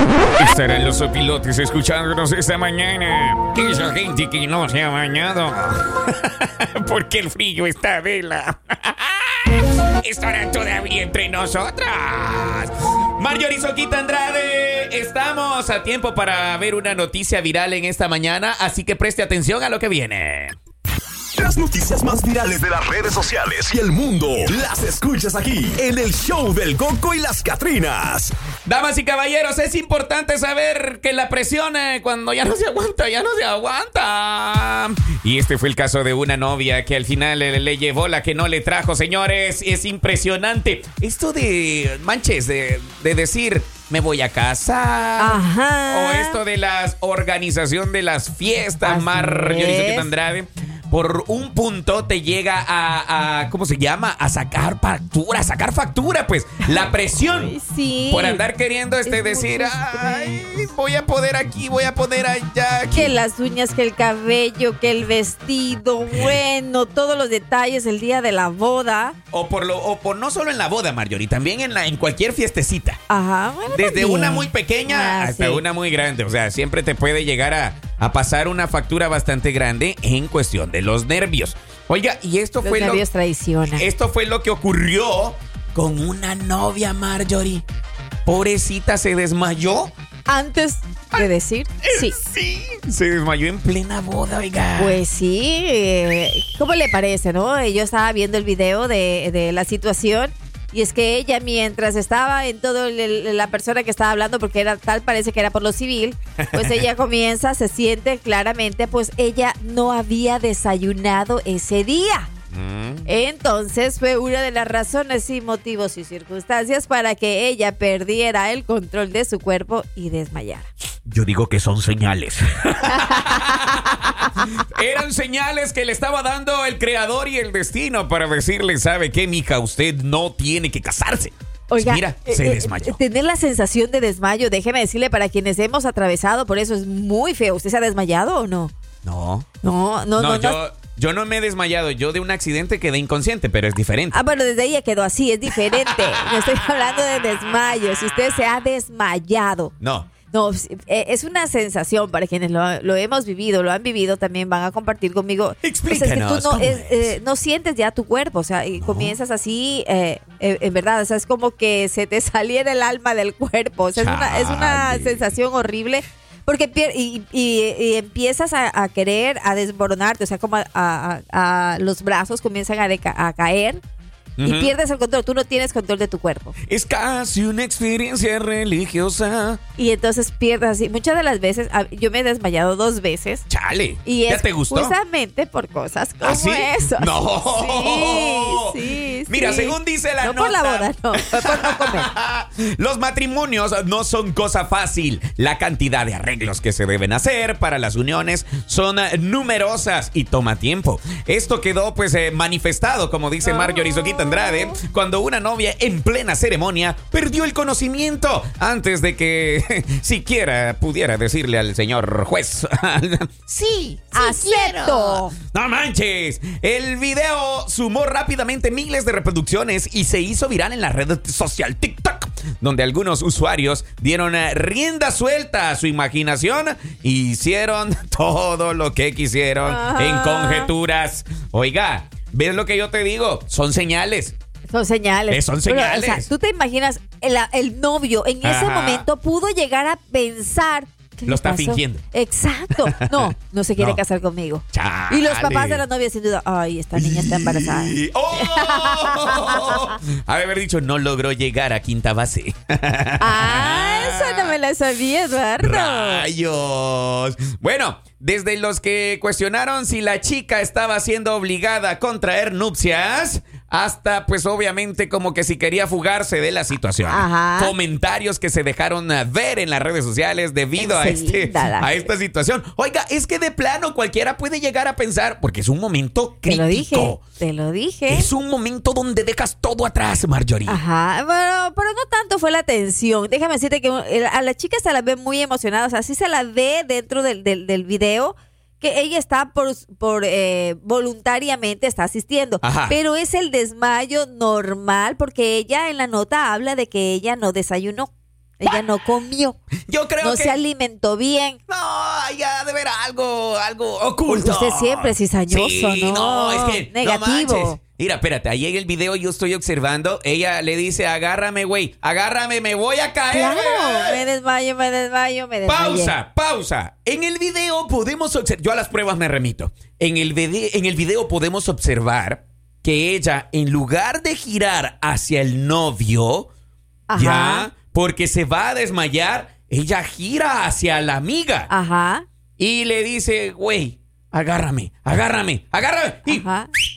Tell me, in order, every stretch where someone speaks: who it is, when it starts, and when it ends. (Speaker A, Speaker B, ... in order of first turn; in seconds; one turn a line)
Speaker A: 0.3-20.6
Speaker B: 21.3-24.7
Speaker A: 24.4-27.0
Speaker B: 25.4-28.3
Speaker A: 28.6-57.5
Speaker C: 45.2-46.4
Speaker C: 48.8-50.1
Speaker C: 57.4-58.4
Speaker A: 58.1-63.2
Speaker C: 59.0-60.4
Speaker C: 62.9-69.2
Speaker A: 69.3-73.0
Speaker C: 73.1-75.6
Speaker A: 73.7-83.0
Speaker C: 82.6-83.9
Speaker A: 83.7-87.6
Speaker A: 88.2-89.9
Speaker C: 90.3-92.2
Speaker A: 91.8-95.0
Speaker C: 94.8-112.3
Speaker A: 106.5-106.8
Speaker A: 112.5-113.0
Speaker C: 113.0-120.7
Speaker A: 121.0-132.9
Speaker C: 122.9-123.5
Speaker C: 131.7-138.7
Speaker A: 139.0-139.4
Speaker C: 139.6-140.6
Speaker A: 140.2-144.2
Speaker C: 144.1-149.7
Speaker A: 149.8-150.1
Speaker C: 150.3-173.8
Speaker A: 155.6-157.1
Speaker A: 158.8-159.1
Speaker A: 163.9-165.3
Speaker A: 174.4-174.7
Speaker C: 174.4-176.5
Speaker A: 176.7-179.6
Speaker C: 179.8-183.4
Speaker A: 183.5-184.9
Speaker C: 184.0-192.1
Speaker A: 186.2-234.3
Speaker C: 203.4-204.6
Speaker C: 214.1-215.3
Speaker C: 229.6-230.7
Speaker C: 234.7-249.9
Speaker A: 235.3-236.3
Speaker A: 238.4-239.0
Speaker A: 241.2-242.0
Speaker A: 243.0-244.0
Speaker A: 244.7-245.8
Speaker A: 246.9-254.6
Speaker C: 253.2-256.3
Speaker A: 255.6-277.2
Speaker C: 267.1-267.7
Speaker C: 270.8-272.0
Speaker C: 276.4-278.3
Speaker A: 278.1-280.8
Speaker C: 280.7-299.6
Speaker A: 292.6-292.9
Speaker A: 299.9-300.5
Speaker C: 300.2-301.6
Speaker A: 301.7-314.2
Speaker C: 304.3-307.8
Speaker C: 313.3-316.1
Speaker A: 315.6-326.5
Speaker C: 327.1-327.7
Speaker A: 327.1-331.7
Speaker C: 331.7-332.2
Speaker A: 332.6-336.4
Speaker C: 336.3-336.7